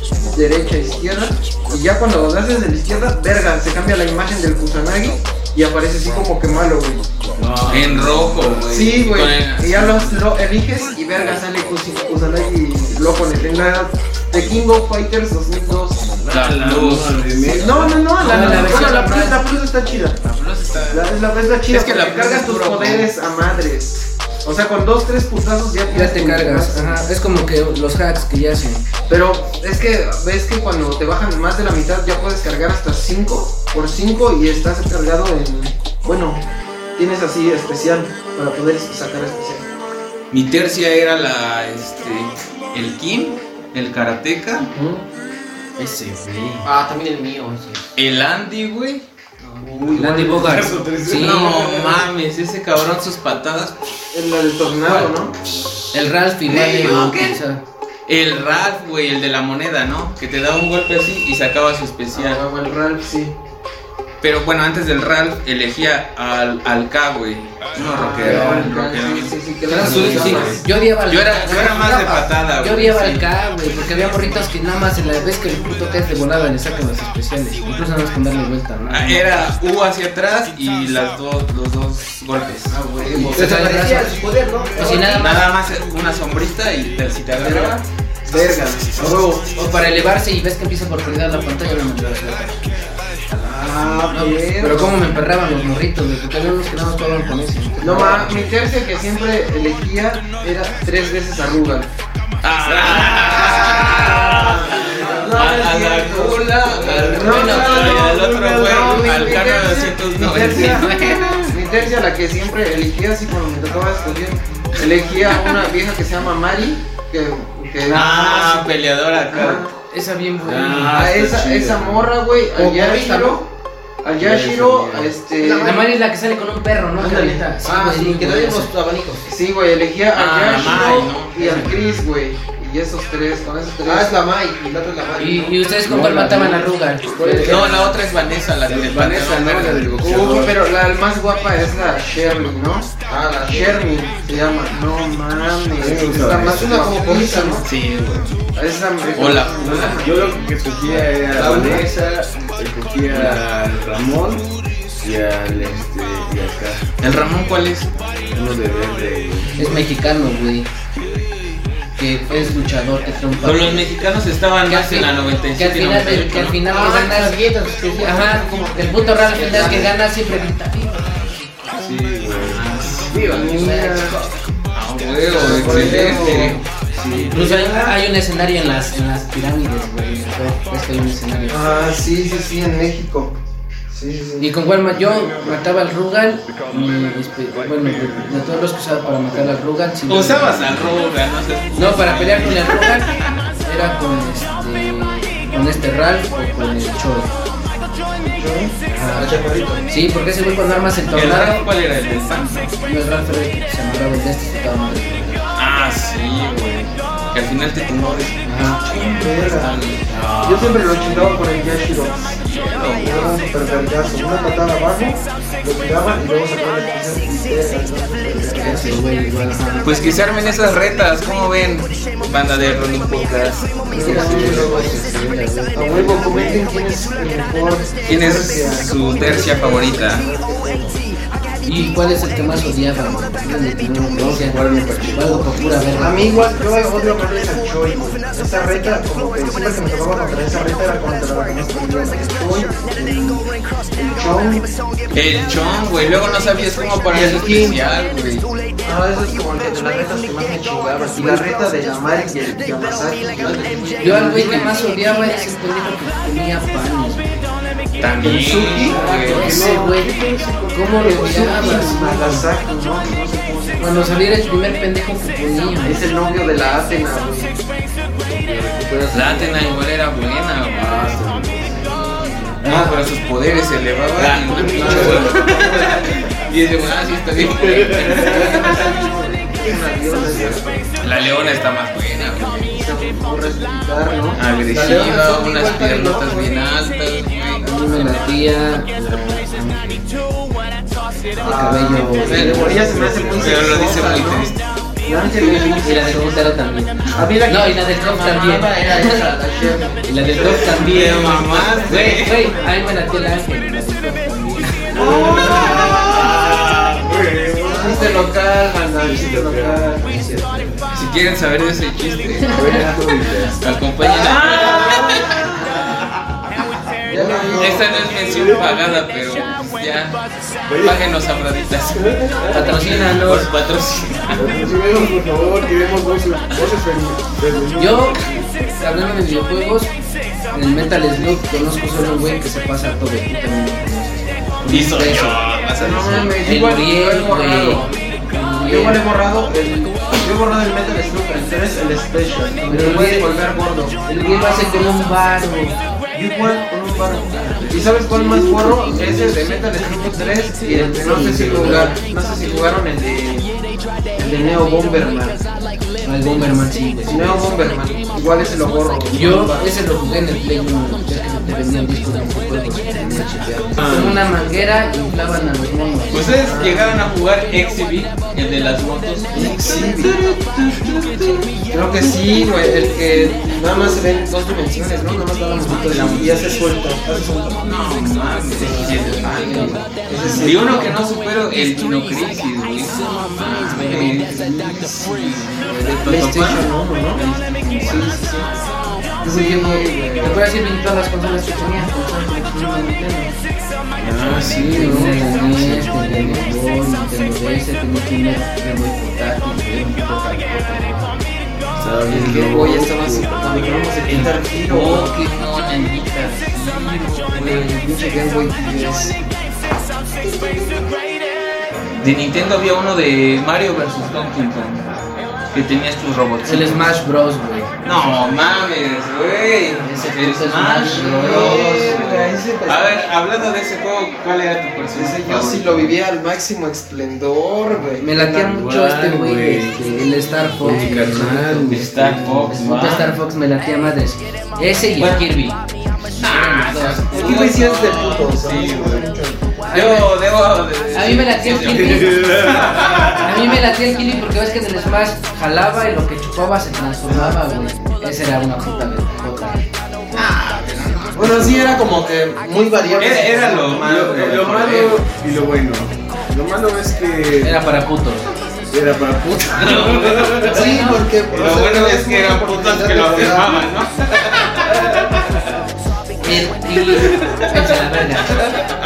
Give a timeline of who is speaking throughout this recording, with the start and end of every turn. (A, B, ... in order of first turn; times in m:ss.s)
0:00.3-0:07.0 A
0:07.4-0:08.7 B
0:07.7-0:10.2 C
0:08.7-0:16.2 A
0:16.2-0:18.7 B
0:16.3-0:17.2 C
0:17.4-0:19.4 D
0:17.5-0:20.2 A
0:18.3-0:18.7 C
0:18.7-0:19.4 E
0:20.2-0:21.1 C
0:20.9-0:27.0 A
0:21.7-0:23.1 C
0:25.9-0:28.8 D
0:29.1-0:36.4 A
0:37.0-0:39.6 A
0:40.3-0:44.7 C
0:44.7-0:45.0 A
0:45.8-0:46.7 D
0:46.6-0:47.9 E
0:48.0-0:49.0 C
0:49.6-0:50.2 E
0:49.6-0:52.0 B
0:49.9-0:51.4 D
0:51.1-0:53.8 C
0:54.1-0:55.3 A
0:54.8-0:55.1 C
0:55.3-0:55.8 B
0:55.9-0:57.6 D
0:56.5-0:57.4 C
0:58.1-1:02.4 C
1:02.1-1:03.4 A
1:04.2-1:14.3 C
1:07.8-1:10.6 A
1:08.2-1:08.6 D
1:09.7-1:19.4 D
1:09.8-1:10.6 B
1:18.9-1:23.4 C
1:22.7-1:25.5 D
1:23.3-1:25.2 E
1:25.2-1:27.8 C
1:27.4-1:27.7 A
1:28.3-1:29.4 A
1:28.3-1:29.4 E
1:29.0-1:32.6 D
1:33.3-1:35.0 A
1:34.1-1:38.4 D
1:37.8-1:41.9 A
1:42.4-1:51.5 C
1:42.7-1:59.7 A
1:47.4-1:48.4 B
1:57.8-1:59.7 C
1:59.9-2:01.0 D
2:00.4-2:02.1 B
2:00.9-2:03.5 A
2:02.5-2:03.4 E
2:04.0-2:05.7 A
2:04.2-2:05.1 B
2:05.4-2:05.8 E
2:05.6-2:08.7 D
2:07.0-2:09.3 E
2:09.2-2:14.2 A
2:10.1-2:12.0 C
2:13.8-2:15.6 E
2:15.2-2:17.8 D
2:15.8-2:17.9 B
2:17.4-2:20.4 C
2:18.6-2:20.6 B
2:20.0-2:22.9 A
2:23.1-2:23.8 E
2:23.4-2:27.7 A
2:25.8-2:27.0 B
2:26.5-2:27.6 E
2:27.6-2:28.4 C
2:28.5-2:30.4 A
2:29.1-2:30.2 C
2:29.7-2:34.5 B
2:31.3-2:31.8 A
2:31.3-2:31.8 C
2:31.4-2:31.7 E
2:33.1-2:33.4 C
2:35.0-2:36.9 B
2:37.0-2:37.9 C
2:38.3-2:39.7 B
2:39.6-2:40.7 D
2:42.0-2:43.9 D
2:43.4-2:46.6 C
2:44.6-2:47.4 D
2:46.6-2:50.0 E
2:47.9-2:51.4 D
2:51.7-2:52.8 B
2:52.3-2:53.4 C
2:53.1-2:54.2 E
2:53.1-2:54.2 A
2:54.7-2:56.6 C
2:55.3-2:58.0 A
2:55.7-2:57.3 B
2:57.2-3:01.7 D
3:01.5-3:03.4 A
3:03.9-3:04.5 A
3:04.4-3:11.0 D
3:10.1-3:13.3 C
3:11.7-3:13.1 D
3:13.6-3:17.3 D
3:18.2-3:19.8 A
3:18.9-3:21.6 D
3:19.2-3:19.8 E
3:21.1-3:22.7 C
3:22.8-3:25.4 D
3:25.6-3:31.6 C
3:28.4-3:28.8 D
3:28.9-3:29.7 A
3:30.4-3:32.4 A
3:32.4-3:33.3 C
3:33.0-3:39.0 A
3:38.6-3:40.2 D
3:39.8-3:43.9 C
3:43.9-3:45.0 A
3:43.9-3:45.0 D
3:43.9-3:46.6 B
3:45.7-3:51.0 A
3:48.0-3:50.2 C
3:51.6-3:56.5 D
3:54.1-3:56.1 B
3:55.9-4:04.7 A
4:05.1-4:08.5 C
4:07.1-4:07.8 A
4:08.8-4:14.5 A
4:13.4-4:14.8 E
4:14.0-4:17.5 D
4:18.0-4:19.6 C
4:18.2-4:19.0 A
4:18.8-4:21.8 B
4:19.0-4:20.2 D
4:20.7-4:22.4 D
4:21.0-4:24.1 A
4:23.8-4:26.0 D
4:25.8-4:27.6 A
4:28.2-4:29.6 B
4:29.1-4:31.0 C
4:30.7-4:31.8 B
4:31.6-4:32.7 A
4:32.6-4:39.0 C
4:32.6-4:32.9 B
4:34.2-4:36.1 B
4:34.7-4:36.1 A
4:37.3-4:38.9 B
4:38.1-4:40.9 A
4:39.6-4:40.8 B
4:41.0-4:42.8 C
4:42.7-4:46.5 A
4:44.3-4:48.2 C
4:47.6-4:50.1 D
4:51.4-4:53.0 D
4:51.4-4:54.5 A
4:52.2-4:53.9 B
4:52.2-4:52.6 C
4:53.4-4:54.6 C
4:55.0-4:56.3 A
4:55.3-4:59.3 D
4:57.1-5:02.6 A
4:58.2-4:59.7 E
5:00.0-5:05.7 D
5:00.5-5:02.5 C
5:04.9-5:08.3 B
5:04.9-5:05.9 A
5:05.0-5:06.4 C
5:07.6-5:10.4 A
5:09.0-5:10.8 B
5:10.1-5:10.7 D
5:10.9-5:12.7 C
5:12.5-5:16.2 B
5:13.5-5:15.5 C
5:17.0-5:18.8 B
5:17.1-5:18.2 A
5:17.5-5:20.2 C
5:20.6-5:21.0 B
5:20.8-5:24.6 C
5:21.9-5:23.0 B
5:22.5-5:23.5 D
5:24.3-5:28.6 B
5:27.8-5:28.2 D
5:28.8-5:29.9 D
5:30.5-5:35.4 D
5:34.7-5:36.4 C
5:35.8-5:37.9 A
5:36.4-5:39.0 D
5:38.6-5:44.0 A
5:42.7-5:43.4 D
5:44.0-5:45.8 D
5:44.3-5:44.7 C
5:46.1-5:53.5 A
5:47.3-5:48.0 C
5:48.1-5:49.5 B
5:50.6-5:52.0 B
5:50.7-5:51.9 D
5:54.1-5:55.4 A
5:56.0-5:57.5 D
5:57.0-5:59.7 A
5:59.1-6:06.3 D
6:03.0-6:03.3 A
6:03.8-6:04.2 C
6:06.1-6:11.5 C
6:06.4-6:07.1 A
6:09.3-6:10.2 A
6:11.7-6:17.8 A
6:15.6-6:16.6 C
6:17.6-6:28.6 C
6:18.6-6:21.0 A
6:19.0-6:19.8 D
6:23.7-6:27.2 A
6:27.8-6:28.5 A
6:29.2-6:30.4 A
6:29.2-6:33.3 D
6:34.0-6:36.6 B
6:34.2-6:41.2 D
6:41.7-6:44.3 B
6:42.1-6:45.2 A
6:44.1-6:47.8 C
6:47.3-6:49.2 A
6:52.0-6:54.8 C
6:55.5-6:56.9 C
6:56.4-6:57.7 D
6:57.8-7:05.9 C
6:59.8-7:01.9 D
7:00.9-7:03.0 A
7:04.9-7:08.1 A
7:08.0-7:15.6 D
7:08.2-7:12.7 B
7:11.7-7:13.2 C
7:15.0-7:15.2 C
7:16.1-7:19.1 C
7:16.2-7:17.4 D
7:17.1-7:19.5 A
7:19.6-7:20.1 D
7:19.7-7:23.6 C
7:20.9-7:22.3 D
7:21.6-7:23.5 B
7:23.1-7:29.6 D
7:27.1-7:27.4 A
7:30.1-7:31.8 C
7:31.1-7:34.6 A
7:31.4-7:31.7 B
7:33.0-7:35.0 C
7:33.9-7:37.6 B
7:37.4-7:38.3 D
7:38.7-7:40.6 B
7:39.6-7:45.2 C
7:40.4-7:43.6 A
7:40.4-7:41.1 D
7:46.2-7:48.4 D
7:47.0-7:47.7 C